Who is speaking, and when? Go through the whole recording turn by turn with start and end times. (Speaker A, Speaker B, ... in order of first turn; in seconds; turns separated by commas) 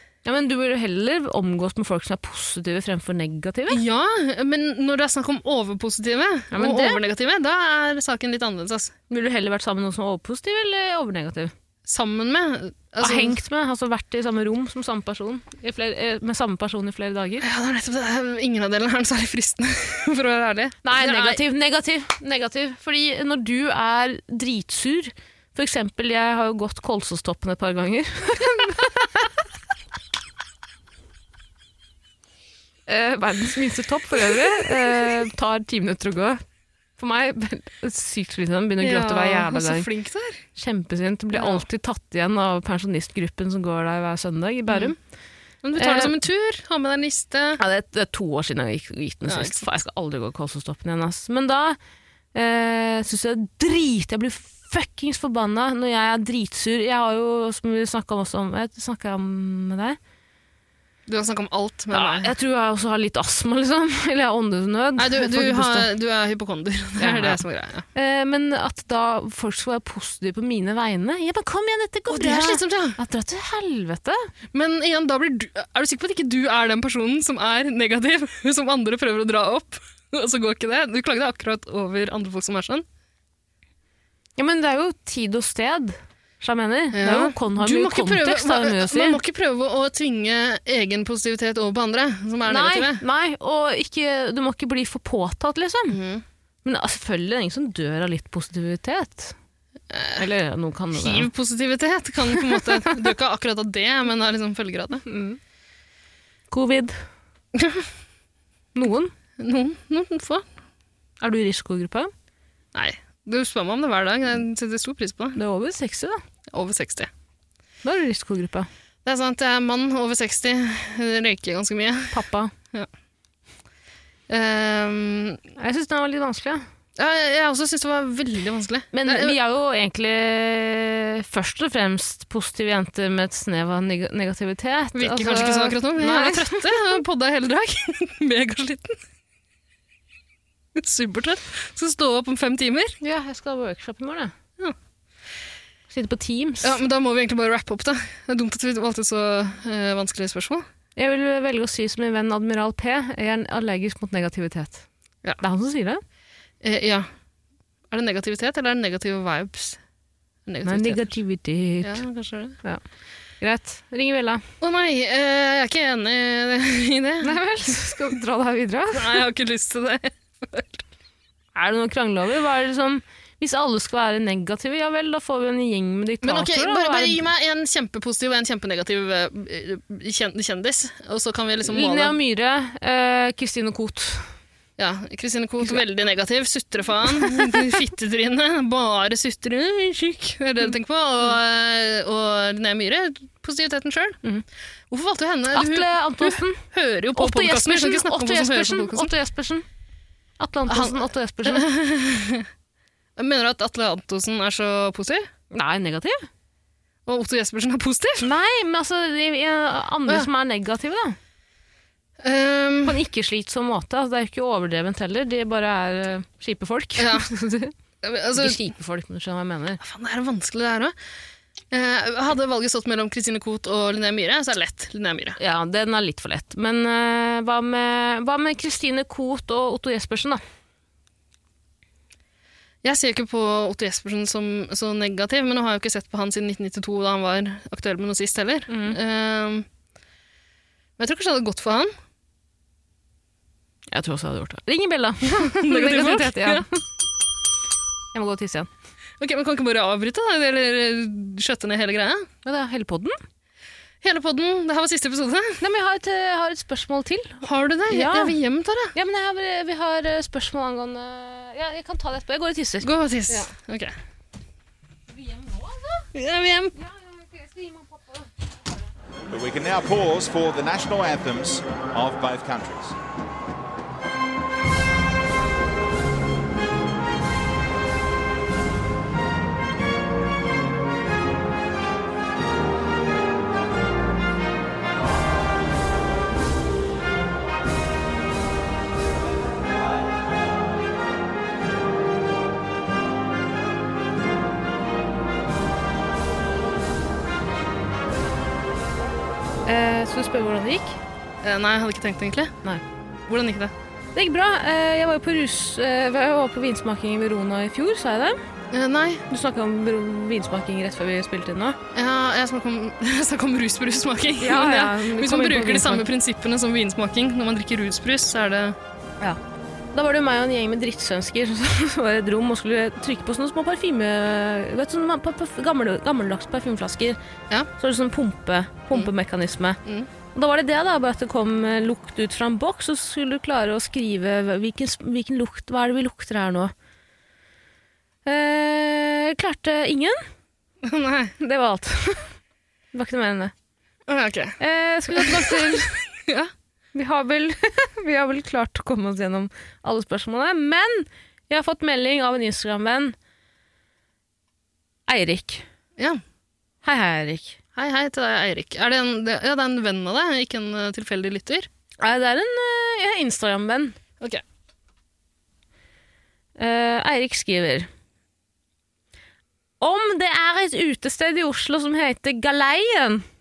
Speaker A: 0.2-3.8, Speaker B: 3.7-8.9, Speaker A: 6.5-7.0, Speaker A: 9.1-11.5, Speaker B: 11.9-13.4, Speaker A: 13.0-17.4, Speaker B: 17.4-21.4, Speaker A: 20.8-29.2, Speaker A: 32.9-36.4, Speaker A: 37.0-39.9, Speaker B: 38.8-40.4, Speaker A: 40.6-45.0, Speaker B: 41.3-41.6, Speaker B: 45.6-47.6, Speaker A: 45.8-46.1, Speaker A: 47.6-51.8, Speaker B: 49.3-49.7, Speaker A: 52.3-60.0, Speaker B: 61.1-62.3, Speaker A: 61.9-65.9, Speaker B: 65.0-67.8, Speaker A: 67.0-67.4, Speaker A: 67.9-74.3, Speaker B: 72.1-73.0, Speaker B: 74.5-82.8, Speaker A: 84.4-89.2, Speaker B: 86.9-93.0, Speaker A: 92.5-96.0, Speaker B: 95.9-96.2, Speaker A: 96.6-99.3, Speaker B: 99.9-100.2, Speaker A: 100.2-101.3, Speaker B: 101.0-105.0, Speaker A: 102.4-103.0, Speaker A: 105.1-105.4, Speaker A: 106.5-107.0, Speaker B: 107.5-107.9, Speaker A: 108.8-109.1, Speaker B: 109.4-110.5, Speaker A: 111.2-112.1, Speaker B: 112.7-115.4, Speaker A: 115.4-116.2, Speaker B: 116.5-117.1, Speaker A: 117.8-118.7, Speaker B: 119.0-122.2, Speaker A: 122.1-122.5, Speaker B: 124.3-125.4, Speaker A: 125.6-126.6, Speaker B: 127.0-129.4, Speaker A: 128.9-137.0, Speaker B: 135.0-139.0, Speaker B: 140.8-143.0, Speaker A: 143.0-144.3, Speaker A: 145.9-146.8, Speaker B: 146.6-150.6, Speaker A: 151.0-154.9, Speaker A: 155.4-156.0, Speaker B: 156.6-157.1, Speaker B: 157.9-159.8, Speaker B: 160.5-161.0, Speaker A: 160.6-162.0, Speaker B: 161.8-162.6, Speaker A: 163.4-164.4, Speaker B: 164.6-167.4, Speaker A: 167.2-169.2, Speaker B: 168.9-170.8, Speaker A: 171.6-177.2, Speaker B: 176.2-182.1, Speaker A: 181.6-184.3, Speaker B: 184.8-194.2, Speaker B: 194.9-199.1, Speaker A: 195.5-196.6, Speaker A: 197.2-199.7, Speaker A: 200.4-201.7, Speaker B: 200.7-202.5, Speaker B: 203.2-205.3, Speaker A: 205.5-206.3, Speaker B: 207.1-208.3, Speaker A: 208.2-211.2, Speaker B: 212.2-213.0, Speaker A: 212.9-217.7, Speaker B: 217.0-217.3, Speaker B: 218.0-218.7, Speaker A: 218.3-219.8, Speaker B: 219.8-220.9, Speaker B: 221.7-225.4, Speaker A: 225.4-230.4, Speaker B: 232.8-239.7, Speaker A: 238.7-239.0, Speaker B: 241.0-241.9, Speaker A: 243.9-246.7, Speaker B: 245.4-246.7, Speaker A: 248.1-248.7, Speaker B: 249.2-252.3, Speaker A: 252.4-253.2, Speaker B: 254.0-255.6, Speaker A: 255.6-258.4, Speaker B: 257.4-258.9, Speaker A: 258.9-263.5, Speaker B: 262.8-263.9, Speaker A: 265.2-266.1, Speaker B: 266.1-266.7, Speaker A: 266.8-268.3, Speaker C: 269.3-273.0, Speaker A: 299.7-301.0, Speaker B: 301.4-302.6, Speaker B: 303.3-303.7, Speaker A: 304.1-308.4, Speaker B: 308.7-309.2, Speaker A: 309.3-311.8, Speaker B: 311.9-318.8, Speaker A: 314.4-316.1, Speaker A: 319.9-327.2, Speaker A: 327.8-329.8, Speaker A: 330.3-336.7, Speaker A: 338.2-340.2, Speaker B: 340.8-341.3, Speaker A: 341.4-342.3, Speaker A: 342.9-343.5, Speaker B: 344.1-344.6, Speaker A: 344.6-345.9, Speaker B: 345.1-346.5, Speaker A: 346.9-353.1, Speaker A: 355.1-355.6, Speaker A: 356.8-357.6, Speaker B: 357.8-361.7, Speaker A: 362.0-364.0, Speaker A: 366.6-367.9, Speaker A: 369.8-373.2